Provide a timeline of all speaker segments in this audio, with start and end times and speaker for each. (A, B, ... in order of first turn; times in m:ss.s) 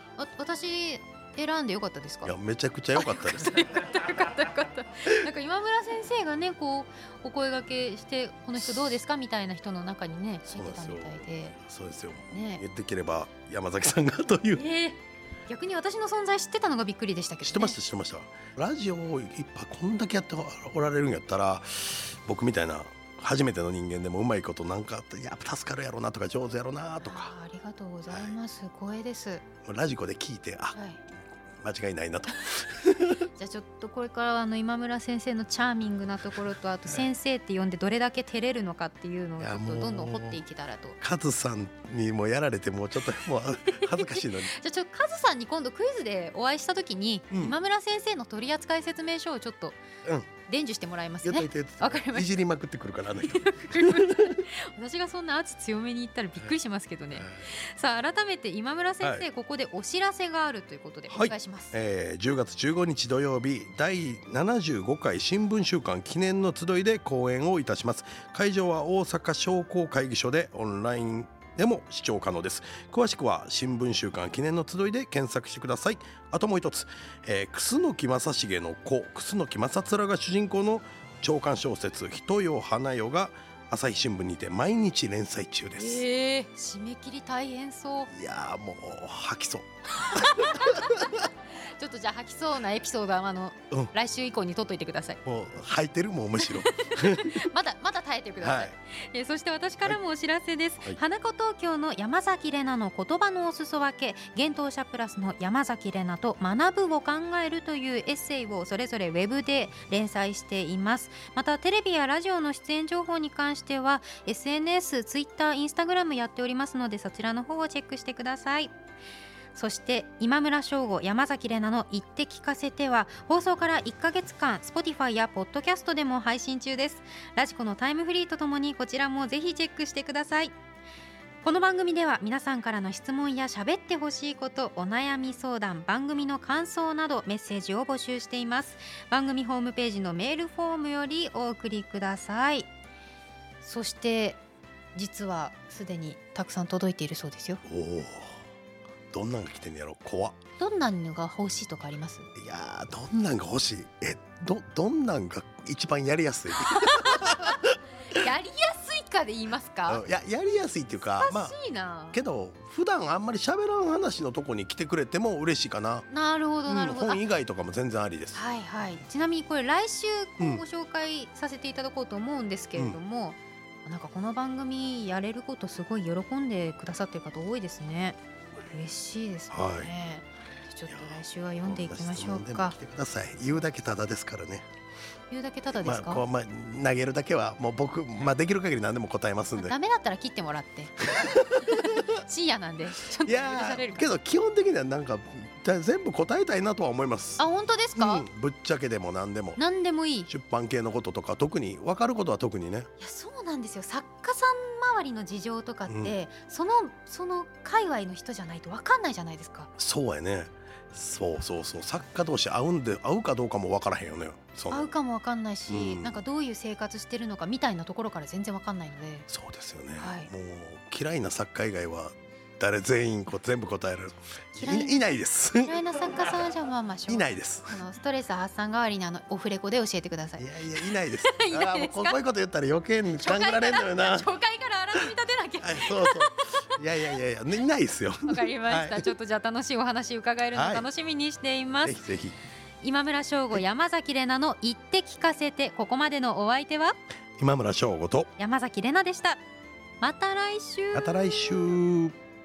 0:00.2-0:02.3 A
0:02.2-0:03.7 B
0:02.9-0:11.6 A
0:10.4-0:14.6 B
0:12.3-0:12.6 A
0:14.5-0:17.8 A
0:17.4-0:27.3 B
0:27.0-0:29.4 A
0:29.6-0:30.8 B
0:30.7-0:31.0 A
0:31.6-0:33.2 B
0:33.4-0:41.0 A
0:39.4-0:40.4 B
0:41.0-0:44.5 B
0:43.7-0:49.8 A
0:47.3-0:47.6 B
0:50.4-0:52.3 A
0:51.2-0:54.4 B
0:53.3-1:01.7 A
0:57.2-0:57.5 B
1:01.1-1:26.0 B
1:25.8-1:28.1 A
1:28.1-1:31.2 B
1:30.0-1:35.2 A
1:35.2-1:37.4 B
1:36.4-1:58.7 A
1:38.4-1:38.7 B
1:59.5-2:10.5 A
2:11.4-2:22.7 A
2:23.6-2:24.4 A
2:24.9-2:27.6 A
2:27.6-2:28.4 B
2:29.1-2:30.4 B
2:30.6-2:32.3 A
2:32.3-2:37.8 B
2:36.6-2:40.0 A
2:39.9-2:41.6 B
2:41.2-2:42.2 A
2:42.1-2:46.1 B
2:46.1-2:47.3 A
2:46.7-2:48.4 B
2:48.3-3:02.8 A
2:59.5-2:59.9 B
3:00.9-3:04.7 B
3:05.3-3:06.2 A
3:05.8-3:09.7 B
3:09.6-3:14.1 A
3:11.0-3:12.2 B
3:13.2-3:17.4 B
3:17.4-3:18.2 A
3:18.0-3:19.6 B
3:19.6-3:20.3 A
3:20.3-3:22.9 B
3:23.0-3:29.7 A
3:25.9-3:26.1 B
3:29.8-3:34.9 B
3:34.7-3:39.3 A
3:35.7-3:36.2 B
3:39.3-3:45.8 B
3:40.0-3:40.3 A
3:44.6-3:45.0 A
3:45.6-3:52.2 A
3:47.1-3:47.8 B
3:50.4-3:54.3 B
3:53.2-3:57.2 A
3:55.6-3:59.1 B
3:58.3-4:02.0 A
4:00.5-4:00.9 B
4:01.8-4:02.4 B
4:02.8-4:07.0 A
4:07.4-4:08.3 B
4:08.4-4:09.4 A
4:10.0-4:11.2 A
4:10.9-4:12.2 B